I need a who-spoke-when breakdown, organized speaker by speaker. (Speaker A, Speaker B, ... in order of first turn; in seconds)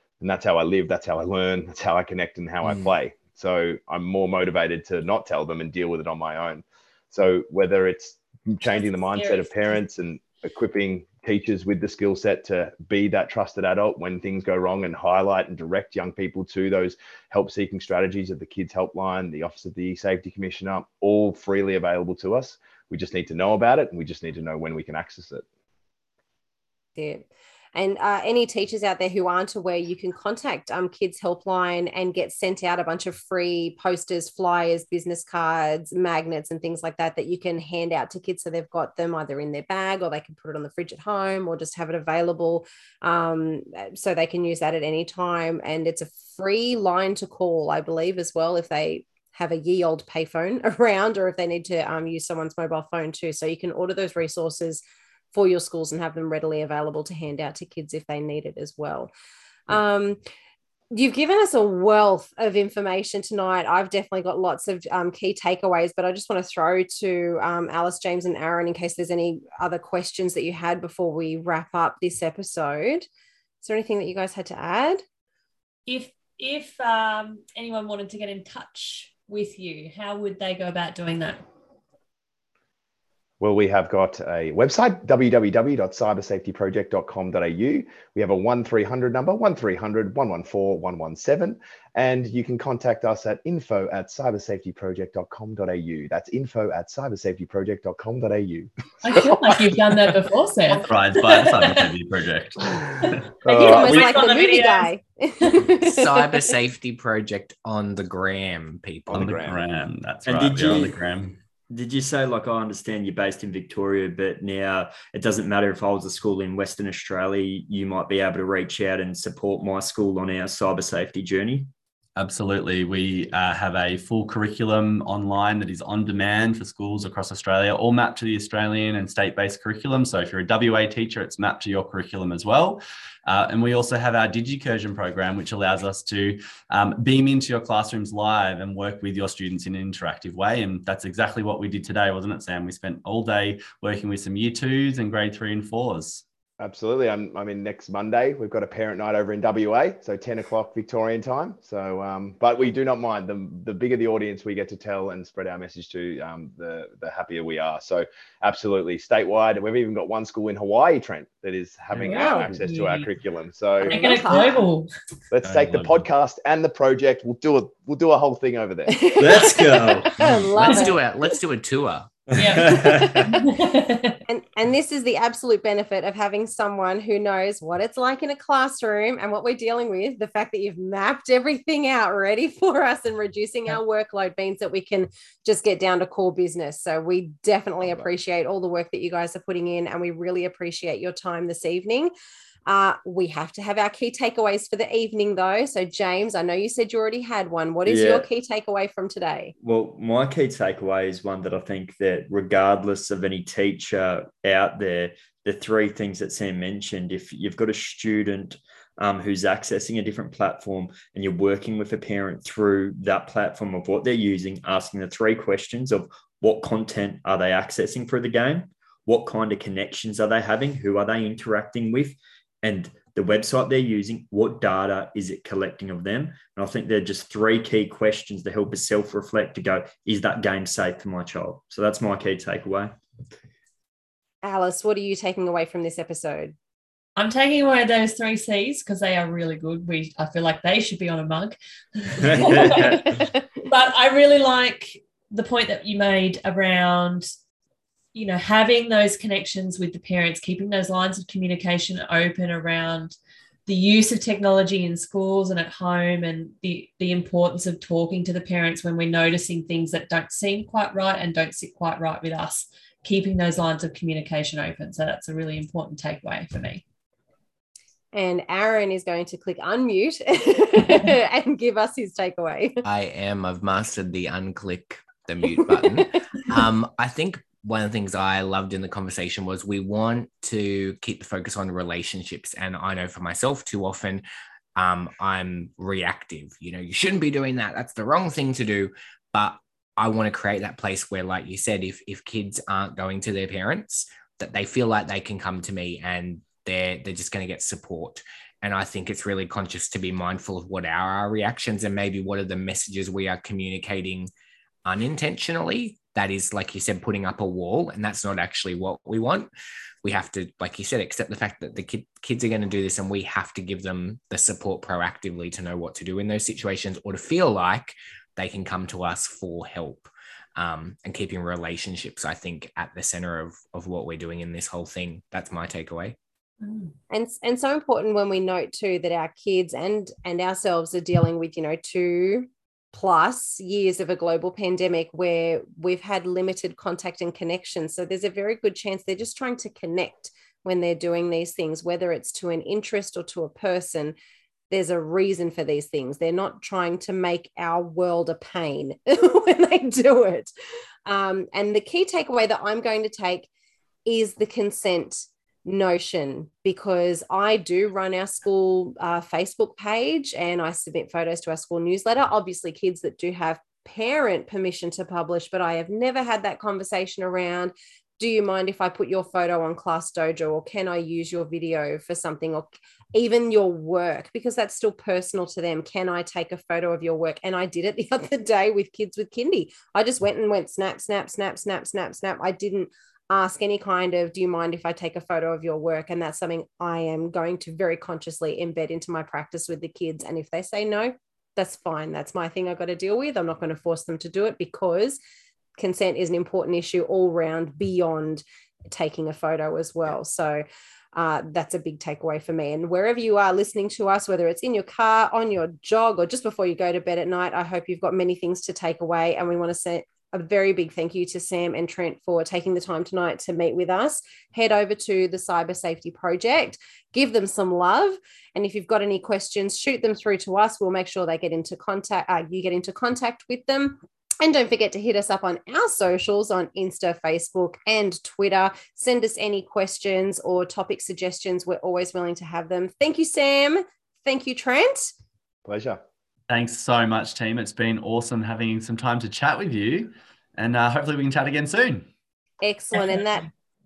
Speaker A: 0.2-25.4, 83.4-100.0, 103.5-104.1, 109.1-109.5, 146.6-164.6, 165.3-169.0, 435.7-436.0
Speaker B: 2.6-2.9, 105.7-109.5, 170.2-172.3, 272.8-284.2, 284.7-304.3, 304.8-309.5, 310.0-326.2
Speaker C: 8.6-9.8, 75.9-81.4, 99.0-101.9, 102.9-104.9, 161.9-163.1, 163.8-164.9, 172.3-174.2, 237.2-247.3, 248.1-266.8, 326.6-326.9
Speaker D: 27.0-54.8, 55.3-59.1, 59.7-60.2, 60.9-73.0, 73.6-75.0, 103.6-106.5, 162.1-162.5, 163.8-164.6, 168.9-171.0, 172.7-173.4, 174.3-192.1, 192.7-199.5, 234.4-236.5, 268.1-272.8, 327.1-344.2, 344.7-350.5, 351.1-353.5, 354.1-395.2, 395.8-435.1, 442.6-443.5
Speaker E: 100.8-103.3, 109.1-111.4, 122.2-146.2, 165.4-166.1, 436.5-442.1
Speaker F: 110.3-111.0, 111.7-121.7, 169.2-170.8, 172.3-173.4, 197.9-198.3, 199.6-232.9, 242.2-243.0